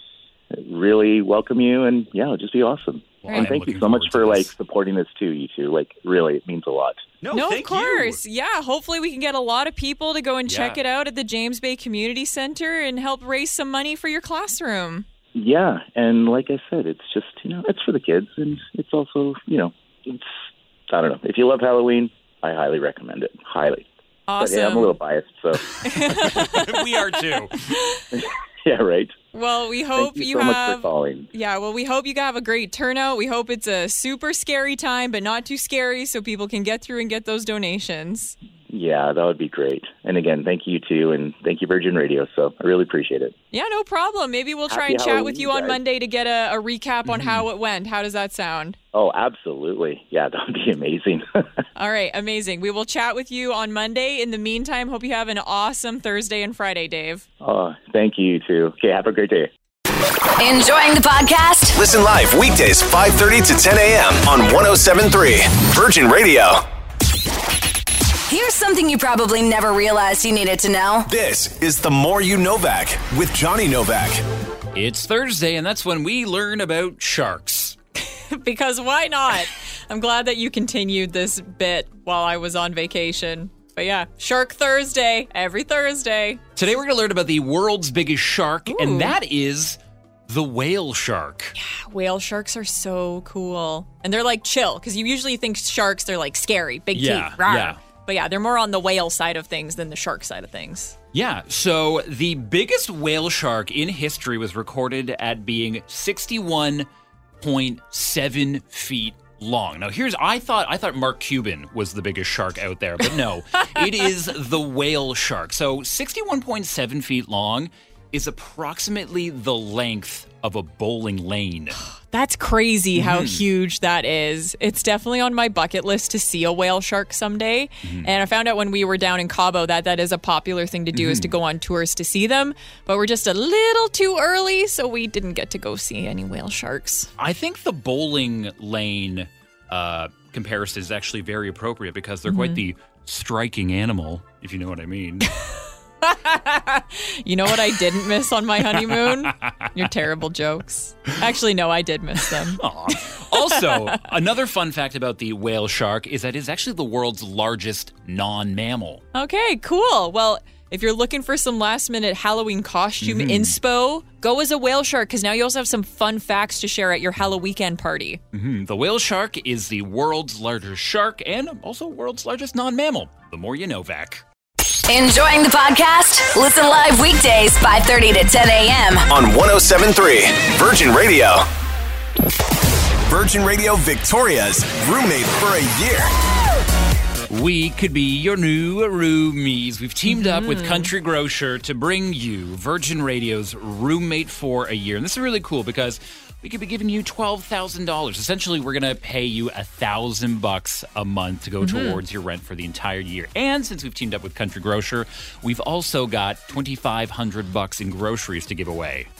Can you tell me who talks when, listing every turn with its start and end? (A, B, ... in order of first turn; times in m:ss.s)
0:00.5-0:07.0 A
0:03.2-0:04.5 B
0:03.2-0:03.5 C
0:07.2-0:08.2 B
0:07.3-0:15.0 C
0:10.5-0:10.8 B
0:15.3-0:20.3 A
0:20.9-0:25.6 A
0:24.3-0:25.0 C
0:25.8-0:26.8 C
0:26.1-0:27.7 B
0:27.7-0:28.0 C
0:28.1-0:29.1 A
0:29.3-0:38.3 C
0:30.0-0:31.3 A
0:38.7-0:43.3 A
0:43.5-0:48.8 C
0:44.7-0:45.8 A
0:47.0-0:47.4 B
0:48.9-0:51.4 A
0:51.8-0:57.2 C
0:57.4-0:59.5 A
1:00.4-1:01.7 D
1:01.7-1:06.6 E
1:08.3-1:11.1 D
1:11.1-1:14.2 E
1:14.7-1:17.8 B
1:18.3-1:26.4 C
1:26.6-1:31.6 B
1:28.7-1:29.1 C
1:31.6-1:41.0 C
1:36.9-1:37.8 B
1:41.1-1:46.9 B
1:47.4-2:01.8 B
2:01.9-2:17.1 C
2:02.9-2:03.4 B
2:07.8-2:08.1 B
2:10.9-2:11.3 B
2:17.2-2:25.3 B
2:22.3-2:22.6 C
2:26.0-2:34.0 C
2:28.7-2:29.7 B
2:32.3-2:39.0 B
2:39.1-2:48.2 C
2:43.0-2:43.6 B
2:48.3-2:54.2 B
2:54.9-2:59.0 D
2:59.1-3:01.5 E
3:03.1-3:06.1 E
3:07.3-3:29.1 B
3:10.1-3:10.9 C
3:21.6-3:22.0 C